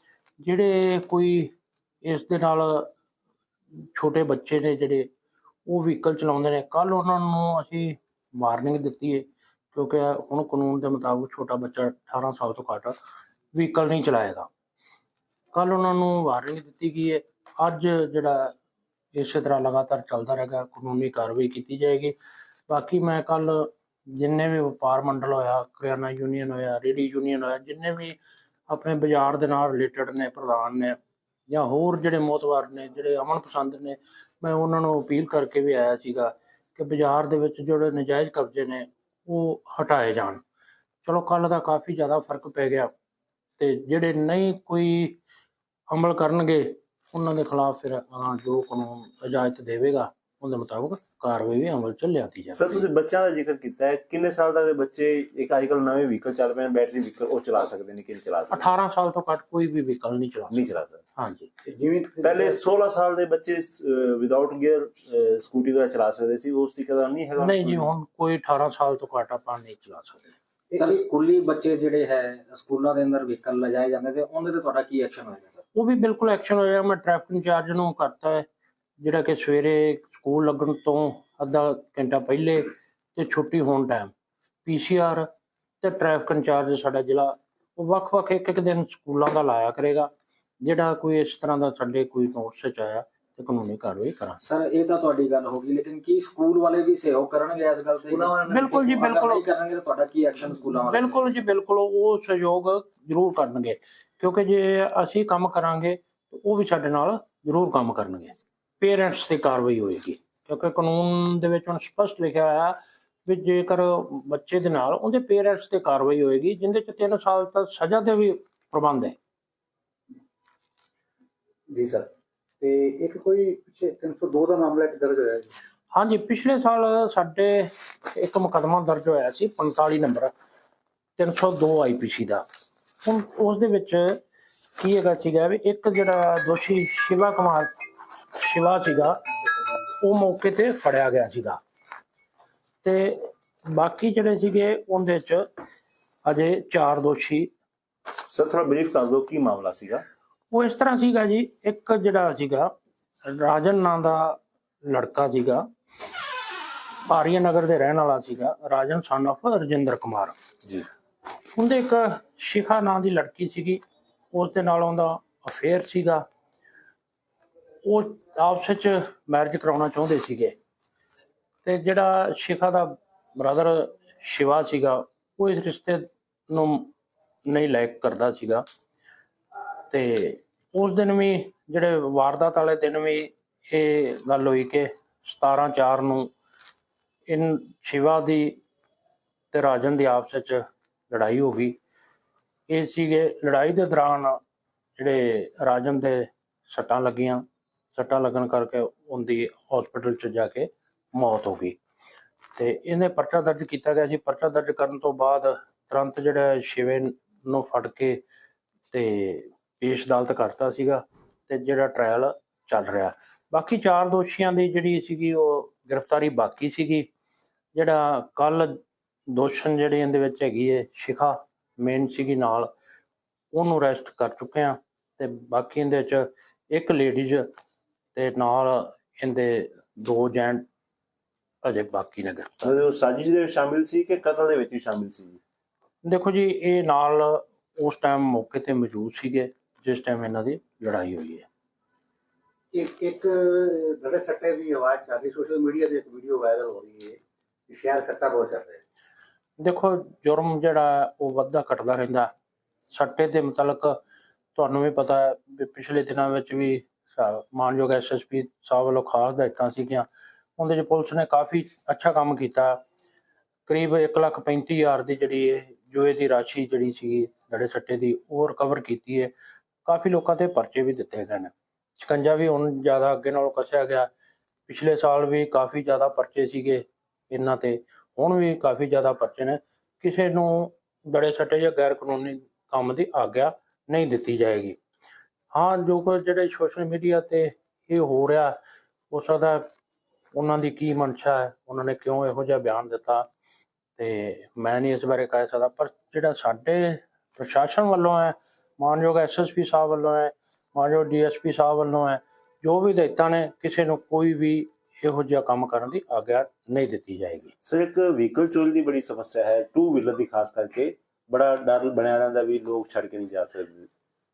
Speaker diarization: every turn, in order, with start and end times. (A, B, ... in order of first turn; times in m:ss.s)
0:00.4-0:02.9 A
0:03.9-0:05.1 A
0:05.7-0:13.0 A
0:13.5-0:14.5 A
0:15.5-0:18.6 A
0:19.1-0:22.2 A
0:22.7-0:40.4 A
0:41.0-0:42.9 A
0:43.6-0:45.2 A
0:45.9-0:52.8 A
0:52.5-0:58.7 B
0:58.5-1:00.6 A
1:00.5-1:01.0 B
1:01.2-1:01.5 A
1:01.6-1:02.6 C
1:02.2-1:07.9 B
1:07.4-1:10.4 A
1:10.7-1:11.0 C
1:10.8-1:15.6 D
1:15.8-1:18.5 A
1:19.0-1:24.1 A
1:24.6-1:25.3 A
1:25.8-1:30.1 A
1:30.6-1:34.4 A
1:34.4-1:41.3 D
1:38.5-1:39.4 A
1:40.9-1:59.2 A
2:01.7-2:02.1 C
2:02.6-2:05.5 C
2:05.9-2:10.3 A
2:11.2-2:12.4 A
2:13.0-2:14.2 A
2:14.8-2:17.7 A
2:18.3-2:19.2 A
2:20.0-2:21.6 A
2:22.8-2:25.5 A
2:26.2-2:27.5 A
2:28.3-2:30.0 B
2:30.5-2:32.7 A
2:33.2-2:35.7 A
2:37.1-2:40.4 A
2:41.6-2:43.8 A
2:44.3-2:46.2 A
2:47.8-2:50.6 A
2:51.6-2:56.9 A
2:57.5-2:58.6 A
2:59.9-3:06.3 A
3:07.3-3:08.6 A
3:09.5-3:11.8 A
3:12.7-3:14.4 A
3:15.0-3:21.8 A
3:22.6-3:28.2 A
3:28.9-3:37.1 A
3:37.7-3:42.7 A
3:43.5-3:47.5 A
3:48.2-3:50.7 A
3:51.6-3:52.7 A
3:52.6-3:55.4 B
3:56.0-4:01.5 A
4:02.7-4:07.2 C
4:07.7-4:08.8 C
4:09.6-4:12.3 A
4:12.9-4:14.0 A
4:14.6-4:22.8 A
4:23.7-4:29.3 A
4:29.8-4:34.1 A
4:34.7-4:44.8 A
4:45.5-4:48.6 A
4:49.1-4:49.6 A
4:50.4-4:53.3 A
4:54.0-5:07.5 A
5:07.6-5:13.9 B